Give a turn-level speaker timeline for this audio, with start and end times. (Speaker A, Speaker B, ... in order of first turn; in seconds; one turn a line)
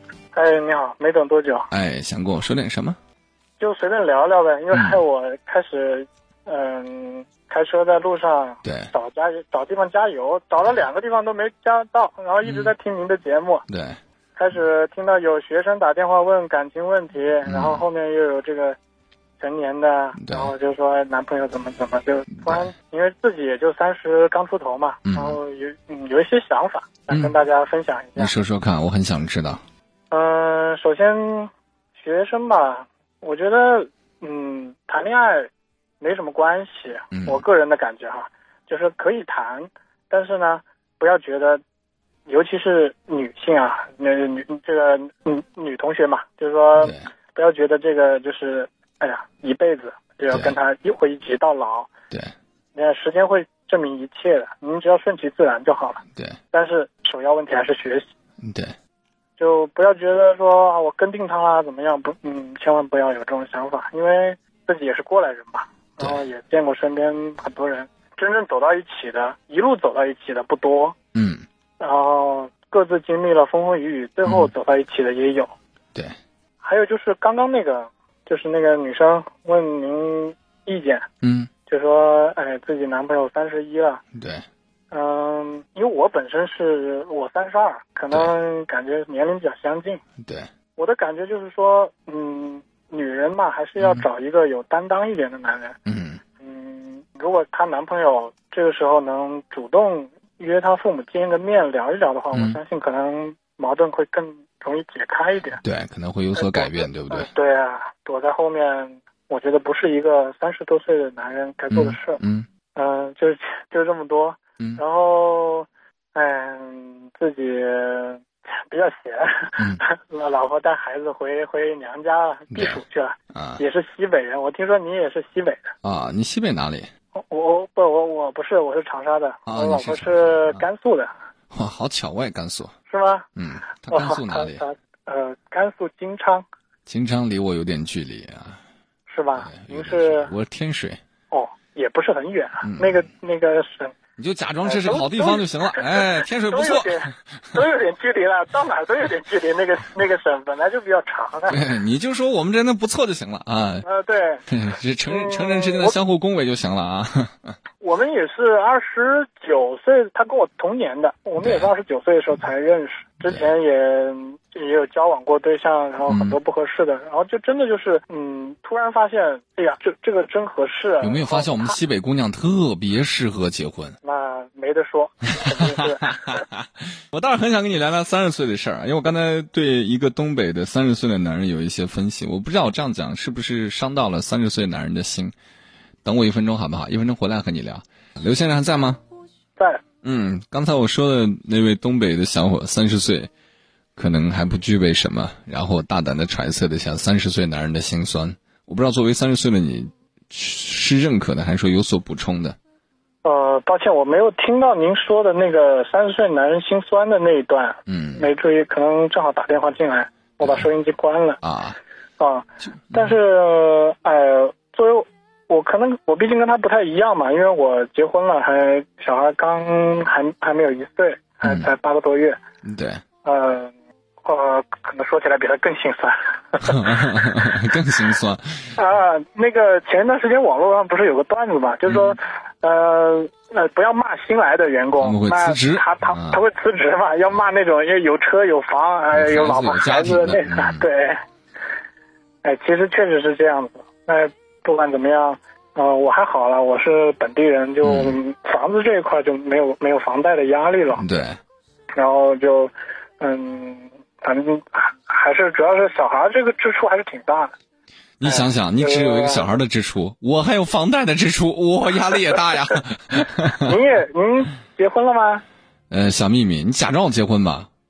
Speaker A: 0.3-1.7
Speaker B: 1.7-3.0
Speaker A: 3.6-13.7
Speaker B: 4.7-5.0
Speaker B: 8.7-8.9
Speaker B: 12.4-12.7
Speaker B: 13.7-14.0
Speaker A: 14.4-18.8
Speaker B: 17.5-17.8
Speaker A: 19.4-28.3
Speaker B: 20.2-20.5
Speaker B: 22.4-22.7
Speaker B: 25.1-25.4
Speaker B: 27.1-27.4
Speaker B: 28.2-29.6
Speaker A: 30.1-35.5
Speaker A: 36.0-41.6
Speaker B: 37.1-37.4
Speaker A: 42.3-51.9
Speaker B: 46.8-47.1
Speaker B: 50.3-50.5
Speaker A: 52.8-56.0
Speaker A: 56.5-58.0
Speaker B: 58.4-58.8
Speaker A: 59.4-71.0
Speaker B: 71.1-71.5
Speaker A: 71.8-75.5
Speaker B: 74.2-74.5
Speaker A: 76.6-81.1
Speaker B: 81.2-81.5
Speaker A: 81.7-84.0
Speaker B: 84.2-84.5
Speaker A: 84.9-90.0
Speaker A: 90.8-95.8
Speaker B: 93.8-94.0
Speaker B: 95.9-96.2
Speaker A: 96.4-105.6
Speaker B: 102.3-102.6
Speaker B: 105.6-107.3
Speaker A: 106.4-112.2
Speaker B: 111.7-112.5
Speaker A: 112.8-125.7
Speaker B: 122.5-122.8
Speaker B: 123.3-123.6
Speaker B: 125.8-126.9
Speaker A: 127.2-131.1
Speaker B: 129.5-130.6
Speaker B: 131.5-132.7
Speaker A: 132.9-133.3
Speaker B: 133.4-134.6
Speaker A: 133.9-136.4
Speaker B: 136.9-138.6
Speaker A: 139.1-140.3
Speaker B: 139.4-141.0
Speaker A: 141.3-143.9
Speaker B: 142.6-143.0
Speaker B: 144.2-147.1
Speaker A: 144.6-151.7
Speaker B: 151.5-153.8
Speaker A: 153.8-154.4
Speaker B: 154.5-157.5
Speaker A: 155.1-156.0
Speaker A: 157.8-171.8
Speaker B: 161.4-161.7
Speaker B: 163.2-163.5
Speaker B: 166.1-166.4
Speaker B: 171.0-174.0
Speaker A: 174.0-176.4
Speaker B: 175.4-185.3
Speaker B: 186.1-189.0
Speaker B: 190.0-193.3
Speaker B: 194.0-202.6
Speaker A: 203.2-211.4
Speaker B: 207.9-208.3
Speaker B: 210.4-210.7
Speaker B: 211.4-211.8
Speaker A: 212.2-222.4
Speaker B: 221.4-221.7
Speaker B: 222.7-223.0
Speaker A: 223.2-223.7
Speaker A: 224.2-227.1
Speaker B: 226.7-228.7
Speaker A: 228.8-241.2
Speaker B: 231.9-232.2
Speaker B: 235.0-236.4
Speaker B: 239.1-240.9
Speaker A: 242.4-251.1
Speaker B: 247.8-248.2
Speaker B: 250.9-251.4
Speaker A: 252.0-257.5
Speaker B: 258.2-263.7
Speaker A: 258.2-259.5
Speaker A: 263.6-265.4
Speaker B: 265.9-267.7